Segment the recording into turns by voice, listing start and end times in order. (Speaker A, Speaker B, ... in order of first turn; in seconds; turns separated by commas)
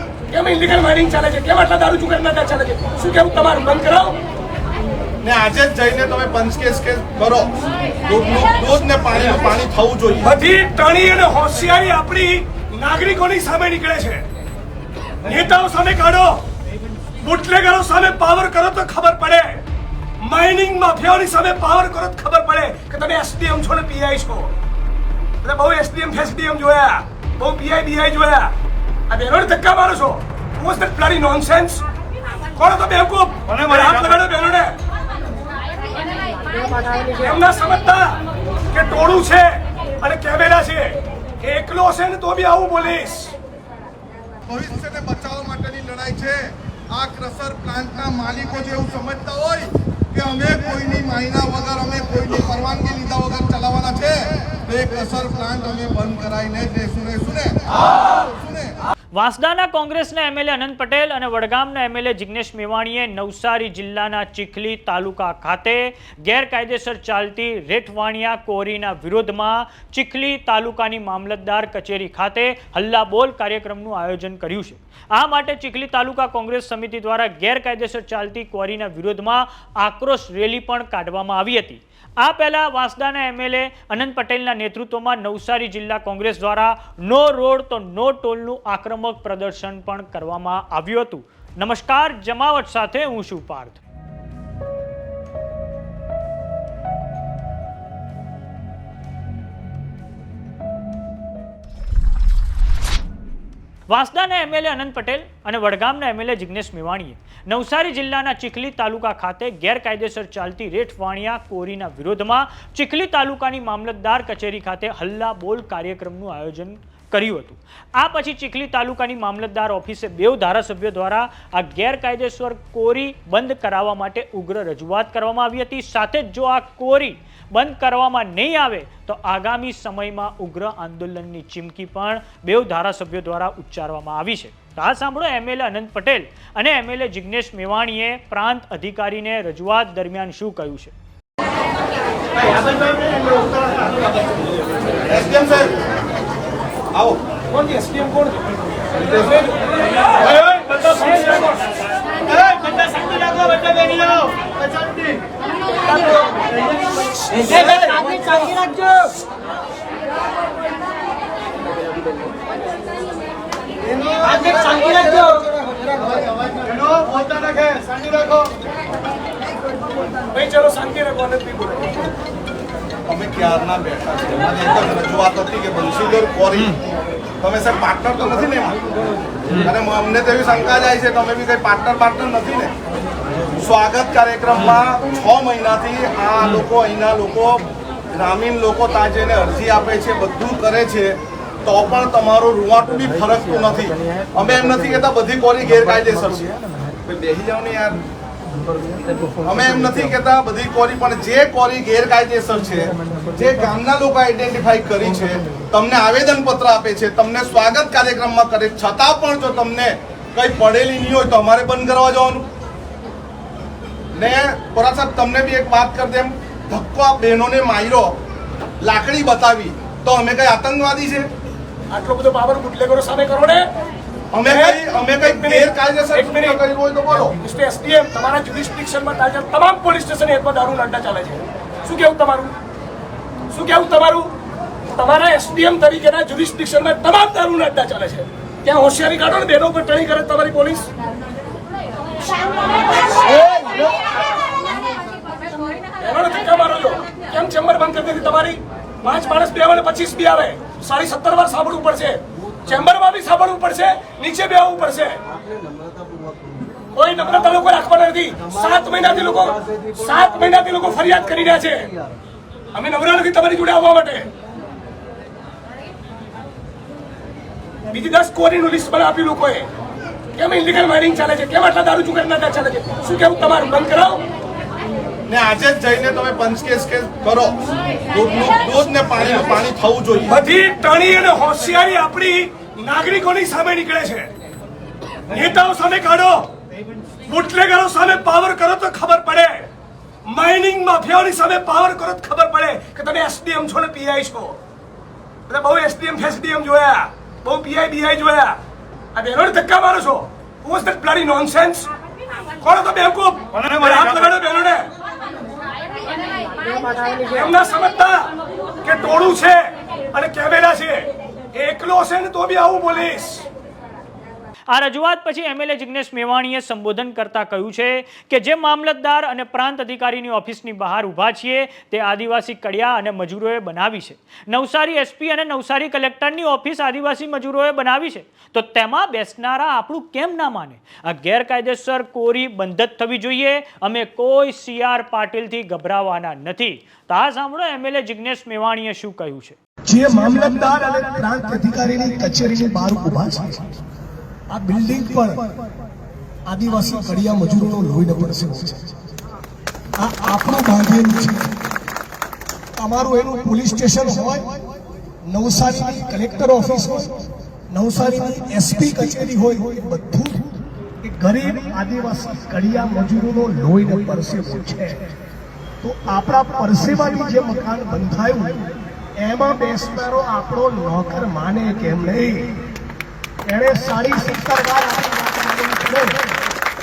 Speaker A: 0.3-4.2, Speaker B: 5.2-7.5, Speaker B: 8.1-10.3, Speaker A: 10.2-14.2, Speaker A: 15.2-16.5, Speaker A: 17.2-19.6, Speaker A: 20.2-24.5, Speaker A: 25.4-28.5, Speaker A: 29.1-31.9, Speaker A: 32.6-34.8, Speaker A: 36.6-43.3, Speaker B: 44.5-58.8, Speaker C: 59.1-93.8, Speaker C: 103.9-140.9, Speaker B: 145.1-145.8, Speaker B: 146.9-147.2, Speaker A: 147.6-148.3, Speaker A: 150.1-151.7, Speaker A: 152.3-154.5, Speaker A: 157.3-158.9, Speaker A: 164.0-168.4, Speaker A: 170.3-172.1, Speaker B: 173.1-176.8, Speaker B: 177.4-178.8, Speaker B: 179.6-182.7, Speaker B: 183.5-196.5, Speaker B: 197.0-198.0, Speaker B: 199.4-212.5, Speaker B: 214.1-218.2, Speaker B: 218.8-221.3, Speaker A: 221.9-223.7, Speaker B: 224.3-227.3, Speaker A: 224.4-226.6, Speaker A: 227.3-232.6, Speaker A: 233.5-234.3, Speaker A: 234.9-240.9, Speaker A: 242.3-243.9, Speaker A: 246.0-255.2, Speaker A: 256.9-261.9, Speaker A: 262.7-264.3, Speaker A: 267.9-269.7, Speaker A: 270.4-274.2, Speaker B: 275.3-280.4, Speaker A: 280.3-284.3, Speaker A: 285.3-286.5, Speaker A: 287.3-289.7, Speaker A: 290.3-294.6, Speaker A: 295.5-298.6, Speaker A: 299.1-301.9, Speaker A: 302.6-304.9, Speaker A: 306.7-313.5, Speaker C: 314.7-339.6, Speaker D: 339.9-343.6, Speaker D: 344.5-345.5, Speaker D: 346.5-348.9, Speaker D: 350.0-351.6, Speaker D: 352.8-354.6, Speaker D: 355.3-357.2, Speaker D: 357.7-360.4, Speaker D: 361.0-365.1, Speaker D: 365.8-372.6, Speaker D: 373.5-376.2